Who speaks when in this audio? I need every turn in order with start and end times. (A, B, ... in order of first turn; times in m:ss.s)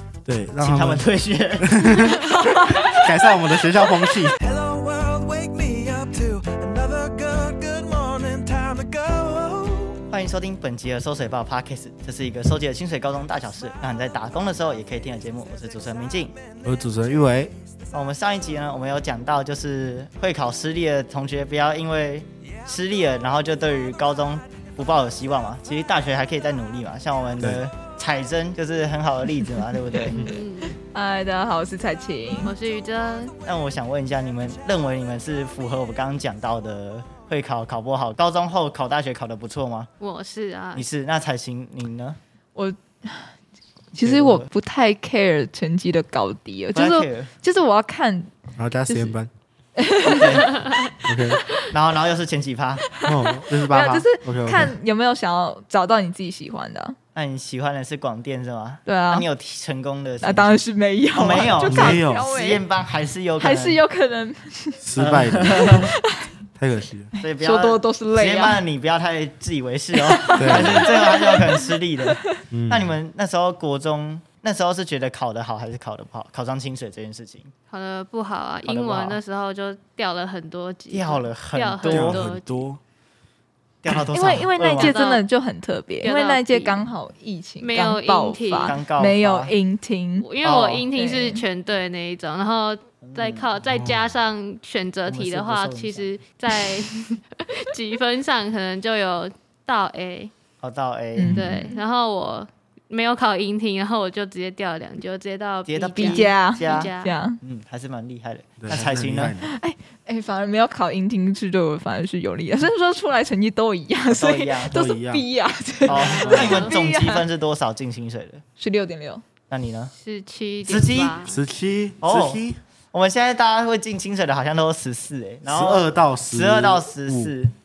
0:00.2-0:01.1 A
0:00.6-0:02.1 B
0:01.6-0:04.4 A
0:04.4-0:10.0 C
0:10.1-0:16.4 B
0:16.6-0:17.5 A
0:17.9-0:30.3 B
0:27.4-0:27.6 A
0:30.1-0:30.8 D
0:30.9-0:32.5 E
0:32.4-0:33.3 D
0:33.5-0:39.9 B
0:40.0-0:40.9 D
0:40.8-0:42.2 B
0:42.6-0:43.3 E
0:43.9-0:48.3 E
0:44.0-0:44.5 B
0:46.8-0:47.3 B
0:48.6-0:49.3 A
0:48.9-0:49.2 E
0:49.8-0:50.6 E
0:50.0-0:50.5 B
0:51.0-0:51.4 A
0:51.7-0:52.9 B
0:53.0-0:57.0 E
0:53.0-0:54.7 A
0:57.2-1:00.6 B
0:58.8-0:59.3 E
1:00.2-1:02.6 E
1:01.2-1:03.8 B
1:01.6-1:02.3 A
1:03.4-1:05.0 E
1:04.8-1:05.8 A
1:05.0-1:05.9 B
1:05.6-1:06.3 E
1:06.6-1:07.1 A
1:07.2-1:17.5 B
1:07.2-1:08.6 E
1:10.0-1:11.6 E
1:10.4-1:10.9 A
1:12.5-1:13.0 A
1:17.7-1:22.7 D
1:18.6-1:19.2 B
1:20.9-1:22.2 B
1:21.9-1:22.8 A
1:23.8-1:25.0 B
1:24.1-1:30.3 E
1:24.7-1:25.2 D
1:26.0-1:26.8 D
1:27.6-1:28.8 D
1:28.7-1:29.5 B
1:30.2-1:40.3 D
1:30.4-1:30.9 B
1:30.9-1:31.4 E
1:33.0-1:33.5 B
1:33.7-1:34.1 A
1:35.1-1:36.1 B
1:40.6-1:41.4 B
1:41.2-1:41.8 E
1:41.3-1:47.1 D
1:45.7-1:49.4 B
1:46.0-1:47.4 E
1:48.6-1:49.5 A
1:49.4-1:57.2 E
1:54.1-1:54.7 B
1:54.7-1:55.3 A
1:55.9-1:58.4 B
1:55.9-1:56.8 D
1:56.0-1:56.6 A
1:58.6-1:59.2 E
1:59.5-1:59.9 B
2:00.0-2:01.4 D
2:00.6-2:01.2 B
2:01.2-2:02.6 A
2:02.0-2:02.4 B
2:02.9-2:07.5 B
2:05.5-2:07.3 A